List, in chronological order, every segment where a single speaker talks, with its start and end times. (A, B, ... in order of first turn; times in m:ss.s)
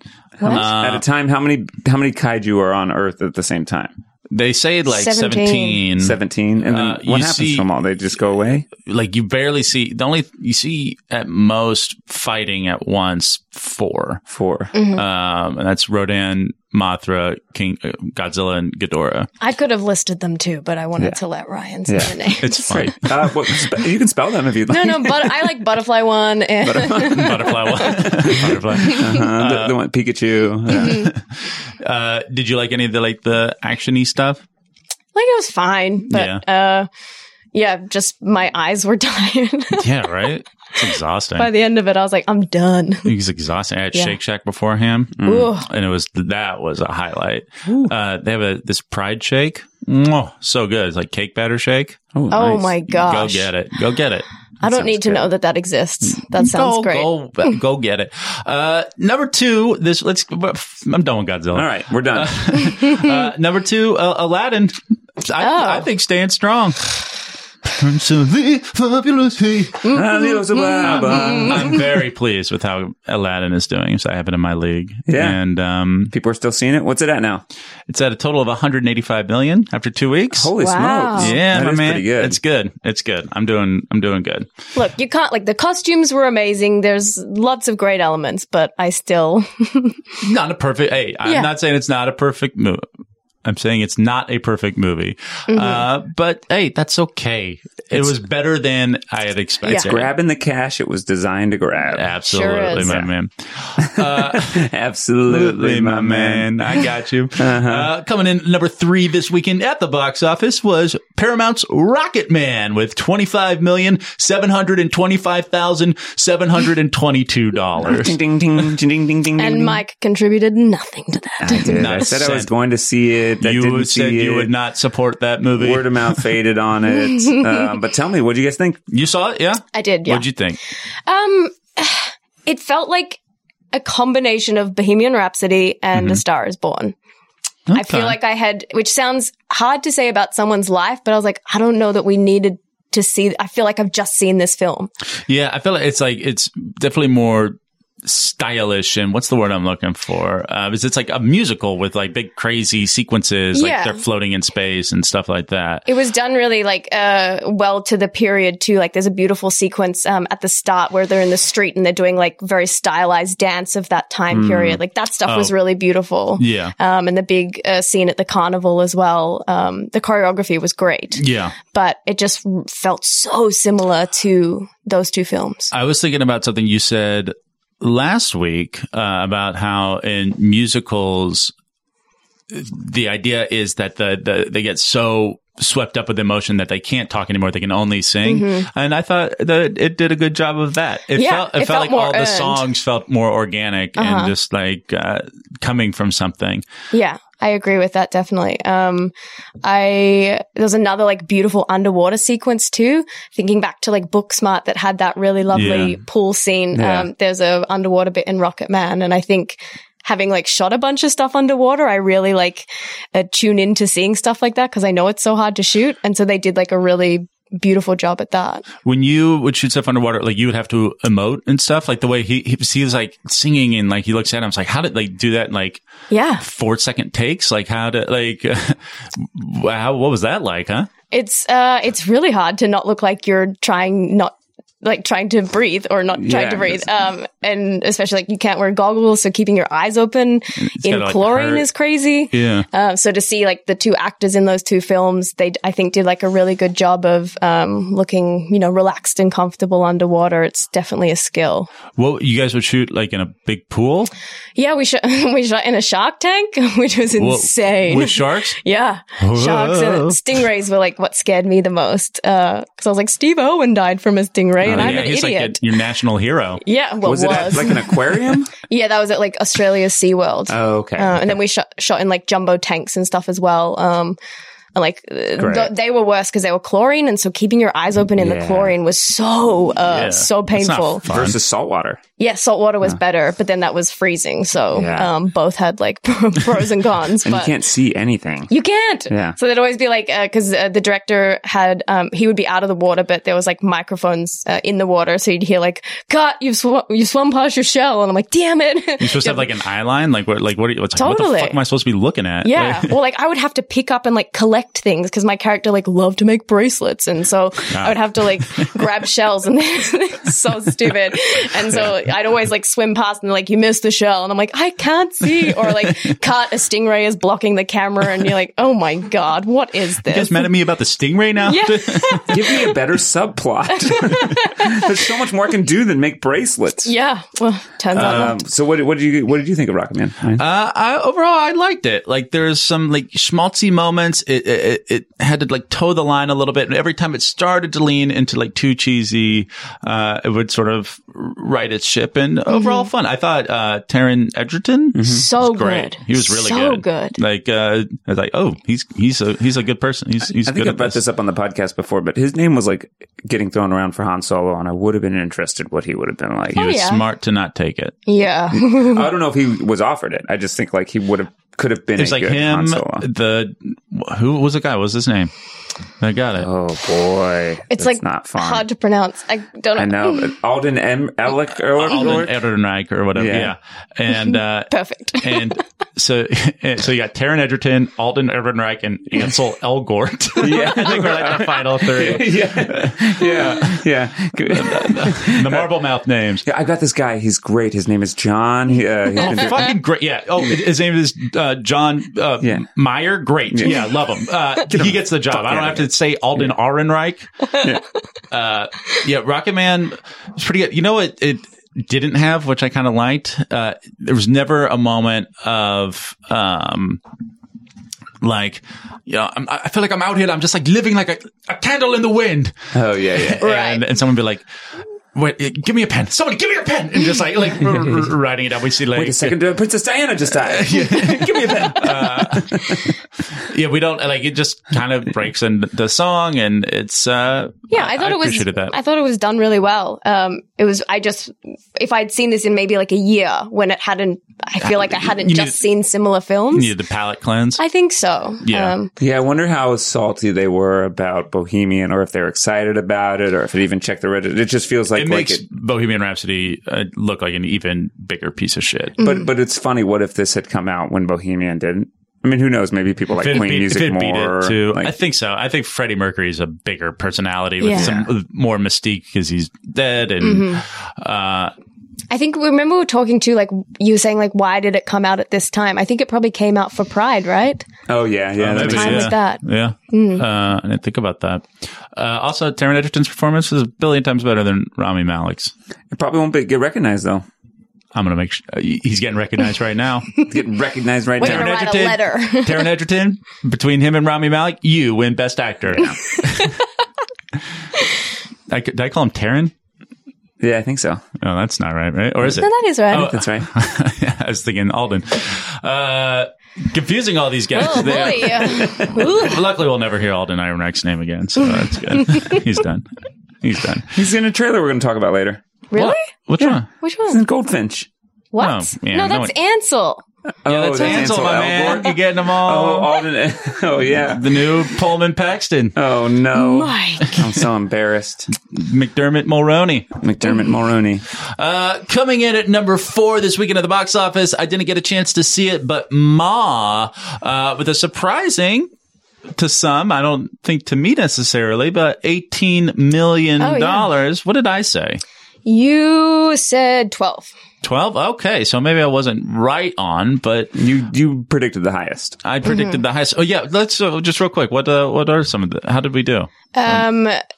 0:00.4-0:03.9 A
0:00.4-0:00.7 B
0:00.5-0:01.0 C
0:04.3-0:07.7 C
0:04.9-0:05.8 B
0:06.0-0:08.7 A
0:08.8-0:14.2 C
0:14.3-0:14.7 A
0:14.7-0:15.0 B
0:14.9-0:19.3 C
0:19.4-0:22.9 B
0:21.9-0:22.1 A
0:22.4-0:23.2 C
0:22.7-0:25.3 A
0:24.7-0:29.0 B
0:26.6-0:31.1 A
0:27.0-0:29.8 C
0:30.7-0:34.4 C
0:30.8-0:31.1 B
0:35.2-0:36.9 B
0:36.1-0:36.4 C
0:37.5-0:39.8 B
0:39.7-0:41.5 C
0:41.4-0:43.1 B
0:43.0-0:54.3 C
0:45.2-0:45.5 A
0:45.2-0:45.6 B
0:47.7-0:47.9 A
0:52.2-0:52.7 A
0:52.3-0:53.5 B
0:54.6-0:55.3 A
0:54.6-0:57.5 B
0:56.2-1:07.1 C
1:01.5-1:02.5 A
1:02.8-1:03.1 B
1:05.4-1:05.9 B
1:07.7-1:09.8 C
1:09.8-1:11.8 B
1:09.9-1:11.8 A
1:10.8-1:16.1 C
1:15.1-1:15.4 A
1:16.1-1:17.4 A
1:17.9-1:20.5 C
1:20.3-1:22.4 A
1:20.6-1:21.3 B
1:21.1-1:24.5 C
1:24.8-1:30.0 B
1:30.2-1:32.8 C
1:33.4-1:40.1 C
1:35.5-1:35.9 B
1:39.7-1:42.1 A
1:41.9-1:44.7 C
1:42.3-1:43.0 B
1:43.8-1:46.6 A
1:45.3-1:58.2 C
1:47.4-1:47.9 A
1:57.8-1:59.8 A
1:59.4-2:02.0 B
2:01.4-2:04.5 A
2:01.7-2:02.5 C
2:03.4-2:06.2 C
2:05.6-2:08.8 A
2:07.1-2:07.6 B
2:08.9-2:10.6 C
2:09.7-2:10.3 B
2:11.1-2:13.2 B
2:13.7-2:17.0 B
2:16.0-2:16.2 C
2:17.7-2:18.2 C
2:17.7-2:24.9 B
2:25.3-2:35.9 C
2:33.5-2:34.0 B
2:35.9-2:55.7 B
2:44.3-2:44.8 A
2:45.3-2:45.6 C
2:46.4-2:46.8 C
2:51.2-2:51.6 C
2:55.7-3:01.5 C
3:02.5-3:16.6 C
3:08.2-3:08.7 B
3:11.2-3:12.6 B
3:14.0-3:14.3 B
3:16.9-3:19.1 B
3:19.6-3:38.6 B
3:25.5-3:26.0 C
3:26.7-3:27.1 A
3:38.8-3:45.8 C
3:46.1-3:46.4 B
3:46.4-3:50.9 C
3:51.1-4:11.7 B
3:56.2-3:56.8 A
4:00.6-4:01.7 C
4:02.3-4:02.7 C
4:12.0-4:14.1 C
4:14.6-4:25.6 B
4:17.2-4:18.6 C
4:19.2-4:20.2 C
4:24.6-4:26.6 C
4:24.7-4:25.1 A
4:26.6-4:28.0 B
4:27.0-4:28.5 A
4:28.5-4:34.2 B
4:30.5-4:31.4 A
4:34.8-4:41.0 B
4:35.4-4:35.7 A
4:38.2-4:38.8 A
4:39.9-4:41.4 C
4:41.1-4:42.0 A
4:42.2-4:47.6 B
4:44.7-4:45.1 A
4:47.2-4:48.5 A
4:48.5-4:59.5 B
4:49.1-4:49.4 A
4:59.0-5:02.9 C
5:01.0-5:01.6 B
5:02.4-5:20.5 B
5:07.7-5:08.8 C
5:20.1-5:22.4 C
5:21.4-5:22.7 B
5:22.3-5:26.9 A
5:23.8-5:24.9 B
5:26.8-5:28.4 B
5:27.9-5:30.4 A
5:28.0-5:28.3 C
5:30.4-5:51.0 C
5:42.5-5:42.9 B
5:45.0-5:45.3 A
5:45.0-5:47.2 B
5:50.3-5:56.6 A
5:56.5-5:57.0 B
5:56.6-5:58.0 C
5:58.1-5:59.1 B
5:58.5-6:03.0 A
6:02.0-6:05.3 C
6:06.0-6:06.5 C
6:06.4-6:08.6 A
6:07.7-6:10.3 B
6:09.8-6:12.4 A
6:11.8-6:23.8 C
6:13.2-6:13.5 A
6:14.1-6:15.5 B
6:20.4-6:25.7 A
6:24.5-6:26.4 C
6:26.4-6:29.7 A
6:29.2-6:37.4 C
6:33.5-6:33.8 A
6:34.7-6:36.5 A
6:38.3-6:47.0 C
6:48.2-6:52.6 C
6:52.7-6:53.4 A
6:53.2-6:54.4 C
6:53.4-6:53.8 B
6:55.1-6:59.4 C
6:58.9-7:03.0 A
7:00.4-7:08.7 C
7:07.7-7:16.7 B
7:14.6-7:15.6 C
7:16.5-7:17.6 C
7:17.6-7:18.9 B
7:18.4-7:18.8 C
7:19.0-7:25.4 A
7:24.9-7:29.0 C
7:29.0-7:34.9 A
7:29.0-7:29.3 B
7:33.2-7:41.5 C
7:37.6-7:37.9 B
7:37.7-7:38.1 A
7:40.2-7:40.6 B
7:42.1-7:47.7 B
7:47.9-7:49.1 A
7:48.4-7:55.5 C
7:48.6-7:50.2 B
7:55.9-7:57.2 A
7:57.9-8:00.1 C
8:00.3-8:01.6 A
8:01.2-8:02.7 B
8:01.2-8:06.6 C
8:08.5-8:09.5 C
8:10.4-8:11.0 A
8:11.2-8:22.9 C
8:12.3-8:13.1 B
8:12.9-8:13.5 A
8:17.6-8:19.4 B
8:22.0-8:22.4 B
8:23.4-8:24.0 C
8:23.9-8:25.4 A
8:25.7-8:26.1 B
8:25.8-8:26.7 C
8:26.4-8:27.9 A
8:26.8-8:27.2 B
8:28.3-8:30.0 B
8:28.4-8:29.3 C
8:30.4-8:34.4 A
8:30.5-8:32.9 C
8:34.0-8:35.8 C
8:35.8-8:38.3 A
8:36.3-8:37.2 B
8:38.5-8:39.9 C
8:40.0-8:41.0 A
8:41.4-8:48.7 C
8:49.4-8:55.0 C
8:53.4-8:53.9 B
8:55.5-8:57.3 B
8:57.6-9:00.6 C
9:00.6-9:02.2 A
9:02.2-9:06.8 C
9:02.5-9:02.8 B
9:06.5-9:07.2 B